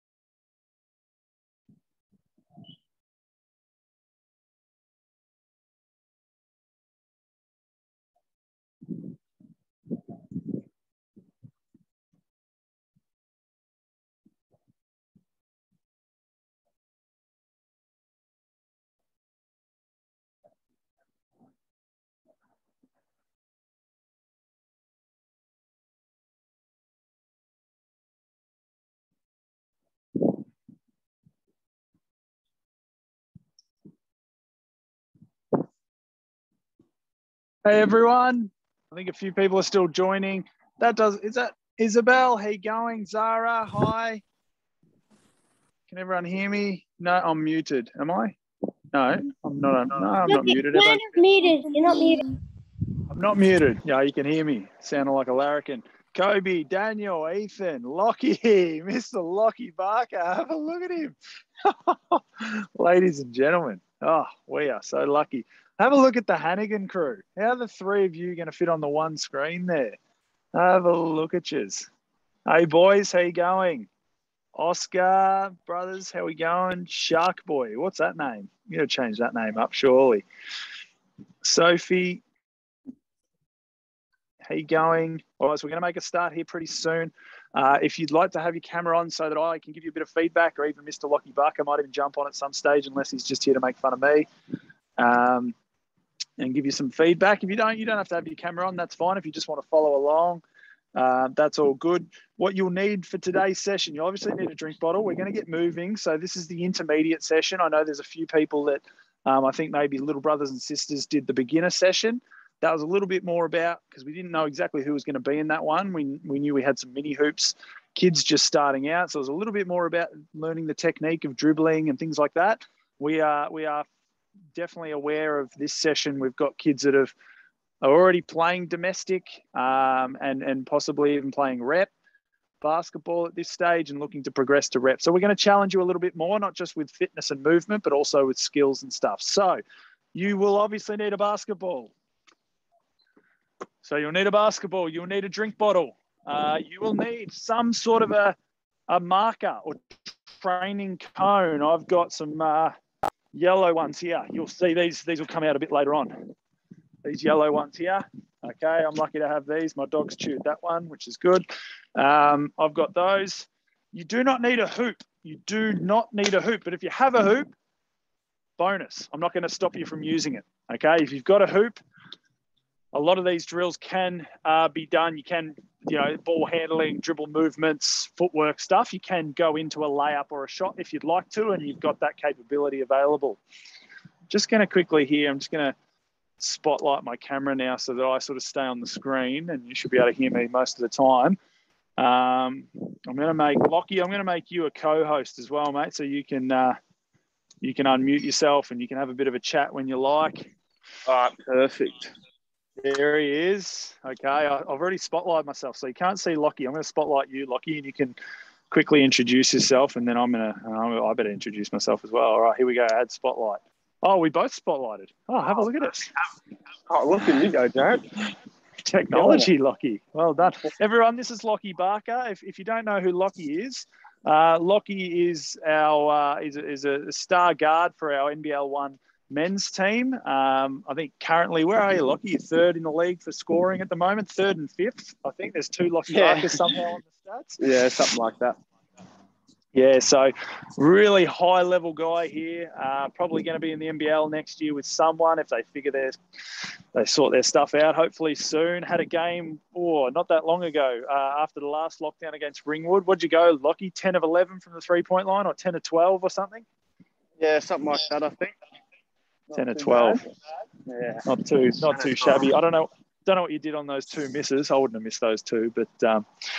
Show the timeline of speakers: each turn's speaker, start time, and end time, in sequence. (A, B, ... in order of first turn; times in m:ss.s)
0:37.6-0:44.2 A
0:45.9-0:48.4 A
0:48.9-0:51.2 A
0:50.2-0:52.2 B
0:53.1-1:10.0 A
1:10.5-1:11.9 A
1:12.5-1:13.9 A
1:14.6-1:20.2 A
1:21.4-1:22.2 A
1:24.4-1:34.3 A
1:35.0-1:35.5 A
1:36.4-1:40.4 A
1:41.0-2:03.9 A
2:04.5-2:07.1 A
2:07.8-2:11.9 A
2:12.6-2:19.6 A
2:20.1-2:21.9 A
2:23.8-2:28.4 A
2:28.9-2:32.7 A
2:33.3-2:36.3 A
2:37.0-2:47.5 A
2:48.6-2:51.8 A
2:52.9-3:03.4 A
3:04.3-3:05.7 A
3:06.4-3:11.4 A
3:12.0-3:16.8 A
3:17.6-3:20.5 A
3:21.1-3:22.1 C
3:22.8-3:28.2 A
3:28.7-3:36.1 A
3:36.8-3:38.0 C
3:38.8-3:57.6 A
3:39.1-3:39.5 C
3:56.1-3:56.7 C
3:57.6-3:58.6 C
3:59.7-4:06.2 A
4:06.9-4:16.6 A
4:17.4-4:18.6 C
4:19.5-4:20.2 C
4:19.5-4:20.2 A
4:20.8-4:21.2 C
4:21.2-4:26.2 A
4:21.8-4:22.4 C